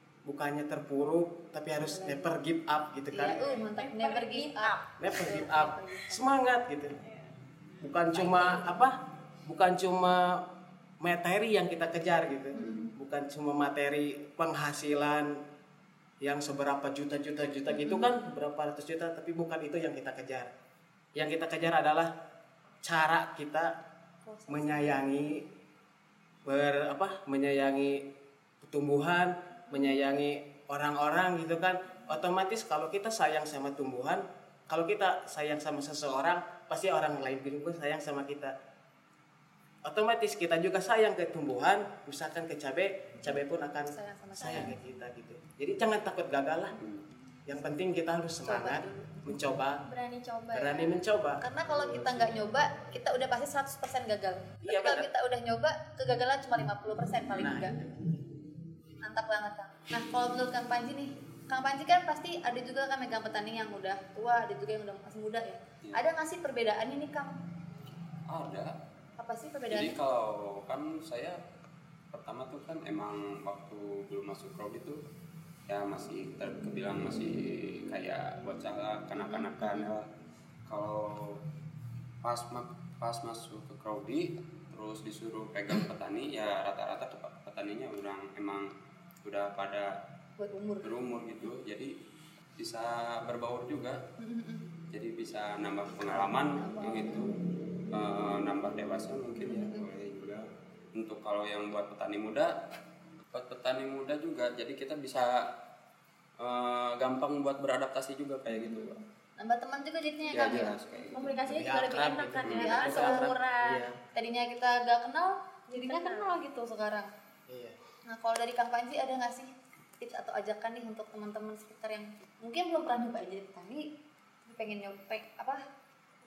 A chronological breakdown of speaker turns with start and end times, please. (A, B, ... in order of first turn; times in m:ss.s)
0:00.3-0:03.5 A
0:01.8-0:02.4 B
0:03.1-0:06.2 B
0:03.2-0:04.9 C
0:05.0-0:07.0 A
0:07.0-0:07.3 C
0:07.8-0:10.4 A
0:08.4-0:08.7 C
0:11.0-0:15.4 A
0:12.5-0:12.9 B
0:16.2-0:20.5 A
0:17.7-0:18.1 B
0:21.2-0:22.1 A
0:22.8-0:23.7 A
0:24.3-0:25.6 B
0:24.5-0:25.4 A
0:26.5-0:28.1 A
0:28.6-0:38.6 A
0:39.9-0:46.8 A
0:43.3-0:44.7 B
0:44.4-0:44.8 C
0:46.8-0:47.0 D
0:47.5-0:49.8 A
0:48.4-0:49.2 B
0:49.8-0:51.0 C
0:50.5-0:52.8 A
0:51.4-0:57.8 B
0:54.6-0:55.1 A
0:57.4-0:58.2 A
0:59.0-1:07.3 B
1:08.3-1:08.7 D
1:09.2-1:10.0 B
1:09.7-1:11.4 D
1:12.1-1:15.0 D
1:15.7-1:20.0 D
1:19.2-1:19.9 B
1:20.7-1:21.4 D
1:22.2-1:28.7 D
1:29.2-1:29.9 D
1:30.4-1:31.5 B
1:30.8-1:31.9 D
1:32.6-1:34.0 D
1:34.2-1:34.6 B
1:34.9-1:37.3 D
1:36.5-1:37.3 B
1:37.9-1:42.6 D
1:39.4-1:39.9 B
1:43.3-1:45.5 D
1:46.4-1:49.0 D
1:48.5-1:50.8 B
1:50.3-1:51.4 D
1:51.1-1:53.8 C
1:51.3-1:54.0 A
1:52.4-1:52.8 D
1:52.5-1:53.3 B
1:54.1-1:57.1 B
1:55.7-1:56.4 C
1:57.5-1:57.8 A
1:58.1-2:03.8 B
2:04.5-2:05.6 B